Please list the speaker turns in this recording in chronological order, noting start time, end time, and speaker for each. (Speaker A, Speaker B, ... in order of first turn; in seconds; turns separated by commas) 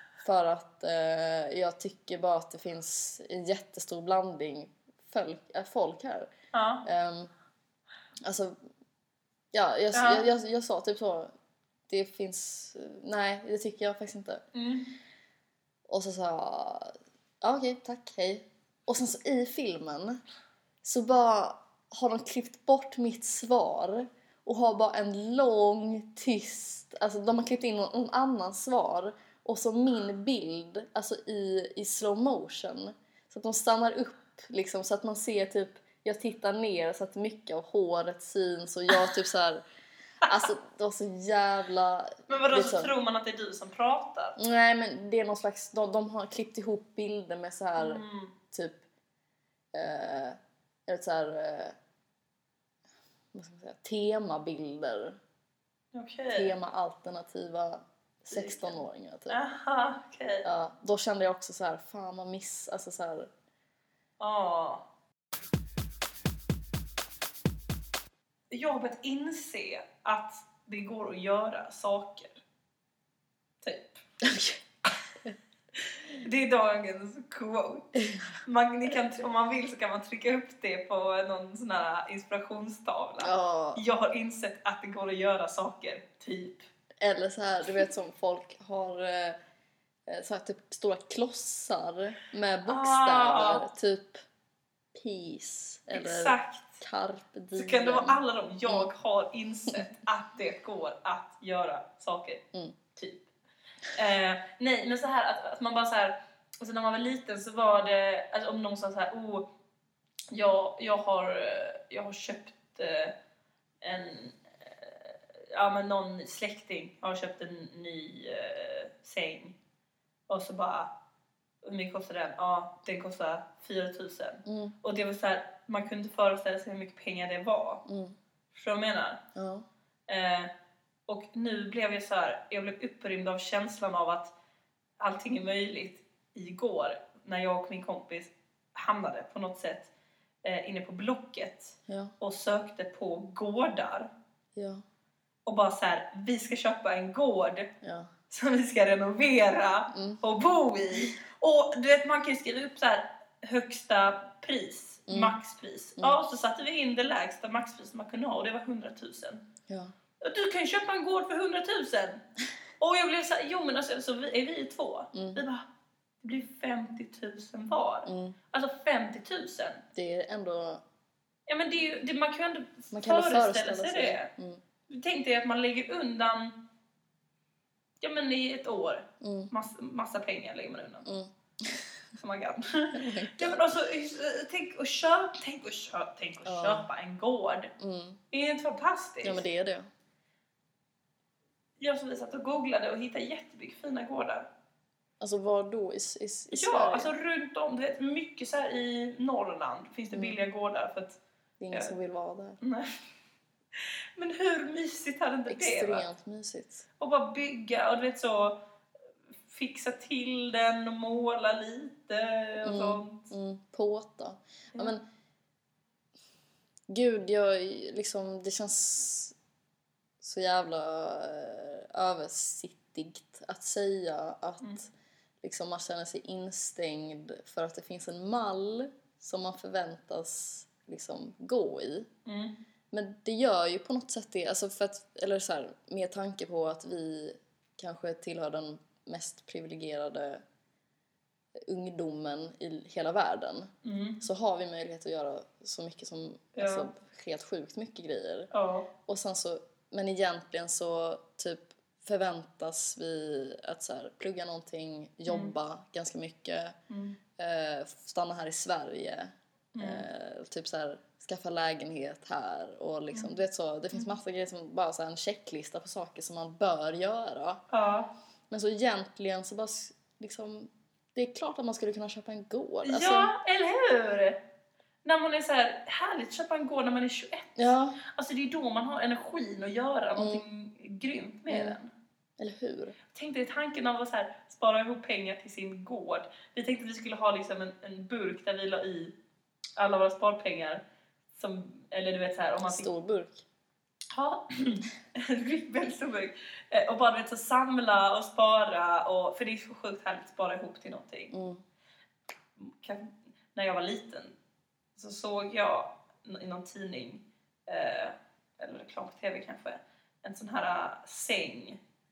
Speaker A: 0.2-6.3, Speaker B: 6.5-6.8, Speaker A: 6.8-7.3, Speaker A: 8.2-8.6, Speaker A: 9.5-11.3, Speaker B: 9.9-10.3, Speaker A: 11.9-14.4, Speaker B: 14.5-14.9, Speaker A: 15.9-20.2, Speaker A: 20.8-39.6, Speaker A: 40.2-42.9, Speaker B: 42.3-44.4, Speaker A: 44.4-48.8, Speaker B: 47.8-48.3, Speaker A: 49.7-51.7, Speaker A: 53.3-55.2, Speaker B: 55.9-56.5, Speaker A: 56.3-59.4, Speaker B: 58.3-58.8, Speaker B: 59.3-60.5, Speaker A: 60.4-63.3, Speaker B: 64.2-64.8, Speaker B: 68.5-72.4, Speaker B: 73.6-74.0, Speaker A: 74.2-74.6, Speaker B: 76.1-86.7, Speaker A: 83.2-83.8, Speaker A: 87.0-89.4, Speaker A: 90.1-94.2, Speaker B: 92.7-93.6, Speaker A: 94.9-98.9, Speaker B: 95.9-96.8, Speaker B: 97.5-102.4, Speaker B: 103.0-103.3, Speaker B: 103.9-109.5, Speaker B: 110.3-113.1, Speaker B: 113.8-119.5, Speaker B: 120.3-120.9, Speaker B: 121.6-127.8, Speaker A: 124.5-124.7, Speaker A: 127.8-128.1, Speaker B: 128.5-129.2, Speaker A: 129.3-129.7, Speaker B: 130.1-130.5, Speaker B: 131.1-134.3, Speaker B: 135.0-139.9, Speaker B: 140.4-144.1, Speaker A: 141.9-142.1, Speaker A: 144.5-144.8, Speaker B: 145.4-147.7, Speaker A: 147.8-148.1, Speaker B: 148.3-159.4, Speaker A: 149.9-150.2, Speaker A: 155.1-155.3, Speaker A: 159.7-159.9, Speaker B: 160.2-162.2, Speaker B: 162.8-165.6, Speaker A: 165.1-165.4, Speaker B: 166.2-169.8, Speaker A: 168.1-168.4, Speaker A: 169.9-170.8, Speaker B: 171.5-174.3, Speaker A: 172.9-174.6, Speaker B: 174.9-176.6, Speaker B: 178.0-181.1, Speaker A: 179.2-179.5, Speaker A: 181.0-181.9, Speaker B: 182.2-187.7, Speaker A: 182.9-183.7, Speaker A: 186.4-186.9, Speaker A: 187.8-188.2, Speaker B: 188.3-189.4, Speaker A: 189.2-189.9, Speaker B: 191.8-194.5, Speaker A: 195.2-197.1, Speaker B: 196.5-201.2, Speaker A: 200.1-200.4, Speaker A: 201.6-202.6, Speaker B: 202.6-202.9, Speaker B: 203.8-206.1, Speaker A: 205.5-206.8, Speaker B: 207.0-208.6, Speaker B: 209.4-213.3, Speaker A: 212.6-215.0, Speaker A: 216.9-219.3, Speaker A: 220.2-224.9, Speaker A: 225.4-232.1, Speaker B: 232.2-232.6, Speaker A: 232.9-240.4, Speaker A: 241.6-248.5, Speaker B: 243.8-244.2, Speaker B: 246.5-246.9, Speaker B: 248.5-248.9, Speaker A: 249.1-256.8, Speaker B: 255.3-255.5, Speaker B: 256.9-257.2, Speaker A: 257.4-267.6, Speaker B: 259.7-260.1, Speaker B: 263.1-263.4, Speaker B: 267.7-268.1, Speaker A: 268.5-273.3, Speaker B: 272.8-274.4, Speaker B: 275.0-281.9, Speaker A: 277.6-278.0, Speaker A: 280.1-280.4, Speaker A: 281.5-281.8, Speaker A: 282.4-283.0, Speaker B: 283.1-289.1, Speaker B: 289.8-290.8, Speaker B: 291.3-292.9, Speaker A: 292.6-293.4, Speaker B: 294.1-301.3, Speaker A: 301.3-301.6, Speaker B: 302.6-304.3, Speaker B: 304.9-311.8